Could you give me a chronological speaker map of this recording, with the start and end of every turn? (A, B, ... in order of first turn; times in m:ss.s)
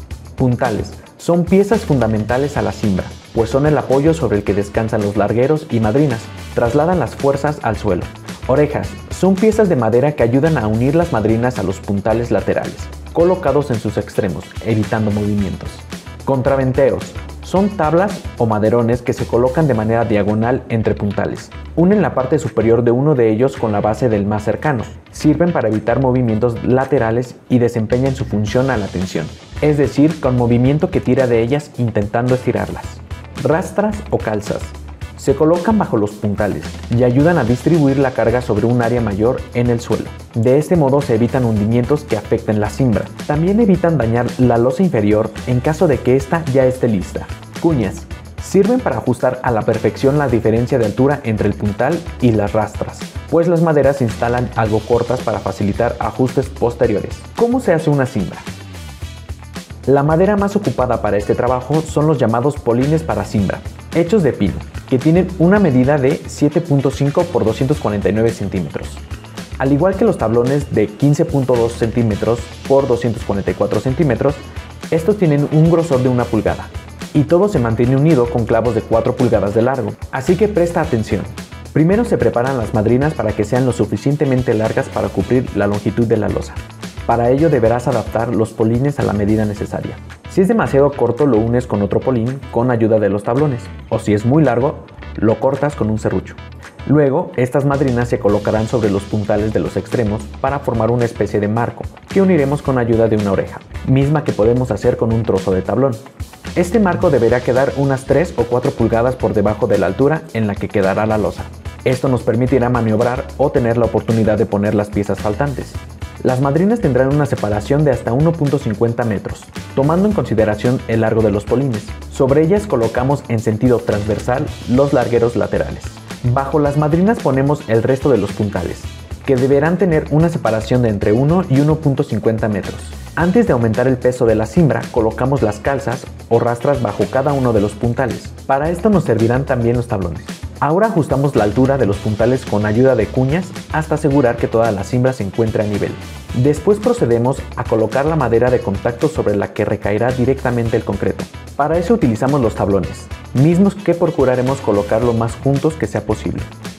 0:00.4-0:58.4 A
0:59.8-1:09.0 A
1:09.6-1:46.0 A
1:46.6-2:36.5 A